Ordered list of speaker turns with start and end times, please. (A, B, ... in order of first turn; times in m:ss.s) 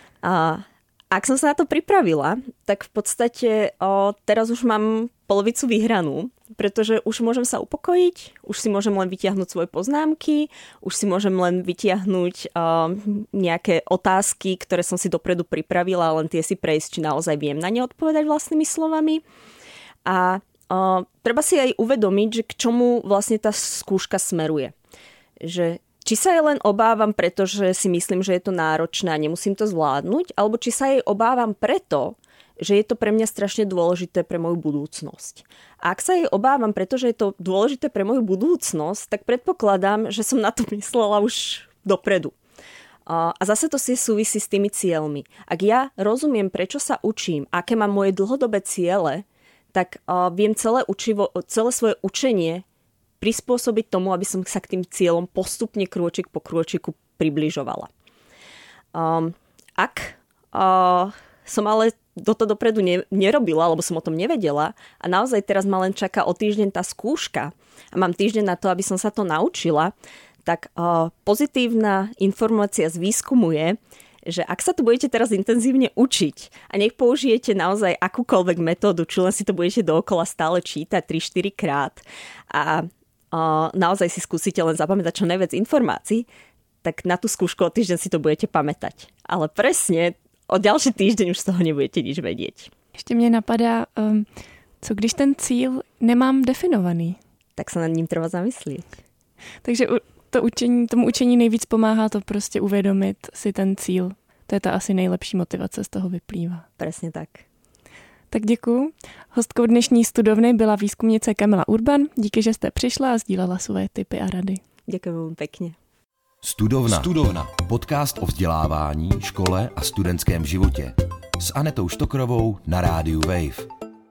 0:00.2-0:19.2 A
0:20.0-0:24.7 A
0:25.4-0:42.3 A
0:43.0-0:52.6 A
0:53.2-0:57.9 A
0:58.9-1:09.9 A
1:10.4-1:26.2 A
1:26.8-1:32.7 A
1:33.0-1:34.2 B
1:34.8-1:37.2 B
1:37.6-1:38.9 A
1:39.6-1:46.6 B
1:46.8-1:47.4 A
1:48.3-1:54.6 B
1:54.9-1:55.7 A
1:56.4-2:03.7 C